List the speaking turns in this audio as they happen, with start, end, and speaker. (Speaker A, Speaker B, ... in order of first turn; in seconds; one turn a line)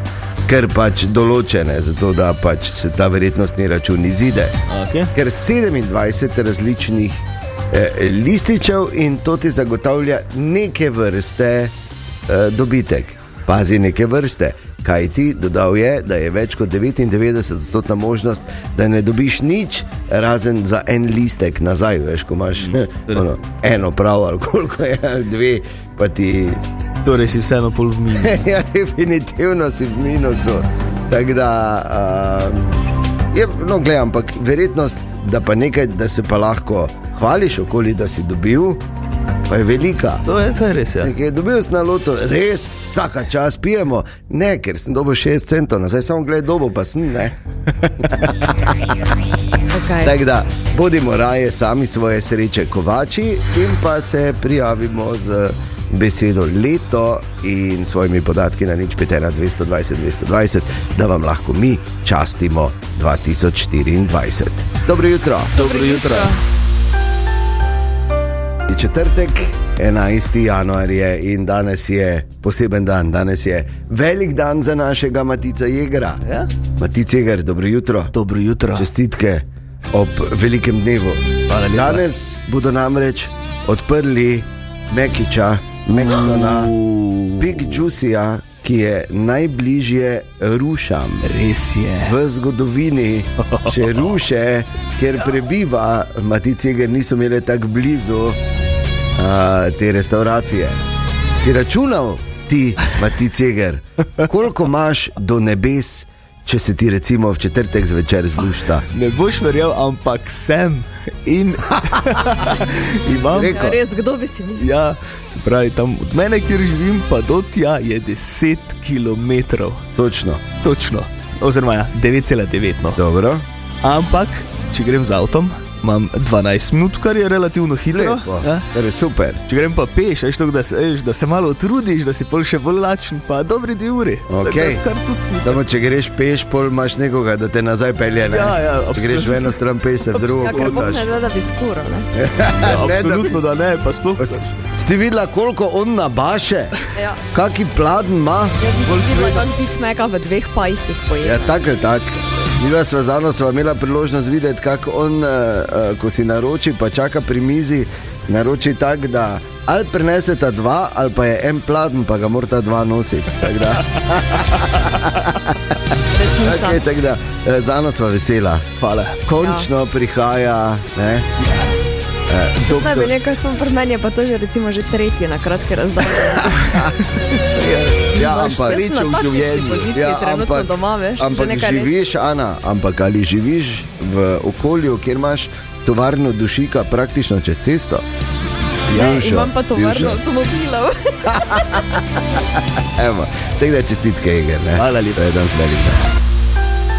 Speaker A: 0.5-4.6
Speaker B: 4.7-5.1
Speaker A: 5.1-11.7
Speaker A: 12.3-26.6
Speaker B: 27.0-28.4
Speaker A: 28.2-32.8
Speaker A: 33.3-38.8
Speaker A: 39.5-40.2
Speaker B: 40.2-41.1
Speaker A: 41.0-47.4
Speaker A: 48.0-48.9
Speaker C: 49.7-50.1
Speaker A: 50.0-65.7
Speaker B: 65.6-66.3
Speaker C: 65.6-66.4
Speaker A: 68.7-76.2
Speaker A: 76.8-78.1
Speaker B: 78.1-78.9
Speaker A: 78.7-86.7
Speaker B: 81.5-82.0
Speaker B: 86.0-87.8
Speaker A: 87.4-91.3
Speaker B: 91.2-92.2
Speaker A: 92.0-98.4
Speaker B: 93.4-94.0
Speaker A: 99.2-100.8
Speaker A: 101.4-108.9
Speaker B: 108.9-113.7
Speaker A: 113.3-113.8
Speaker C: 113.5-114.7
Speaker B: 114.6-119.8
Speaker A: 120.0-120.4
Speaker B: 120.6-123.0
Speaker A: 123.0-123.5
Speaker B: 123.8-128.7
Speaker A: 127.9-129.4
Speaker B: 129.5-135.6
Speaker A: 134.3-134.8
Speaker A: 135.4-141.1
Speaker B: 138.3-139.5
Speaker B: 140.2-140.9
Speaker C: 140.4-142.1
Speaker A: 142.2-143.5
Speaker B: 142.6-144.5
Speaker A: 144.2-146.8
Speaker C: 146.9-147.2
Speaker A: 147.3-148.6
Speaker C: 148.6-151.6
Speaker B: 148.8-149.4
Speaker A: 151.2-165.6
Speaker C: 166.1-166.8
Speaker A: 166.4-168.7
Speaker B: 168.8-169.2
Speaker A: 169.2-171.3
Speaker C: 169.4-169.7
Speaker B: 171.4-171.7
Speaker A: 172.3-173.1
Speaker C: 172.7-176.7
Speaker A: 176.4-177.0
Speaker B: 177.5-179.9
Speaker A: 178.1-178.8
Speaker C: 178.1-181.9
Speaker A: 179.9-188.0
Speaker A: 188.9-190.2
Speaker C: 188.9-191.8
Speaker A: 191.3-191.8
Speaker A: 192.8-196.2
Speaker B: 194.8-195.2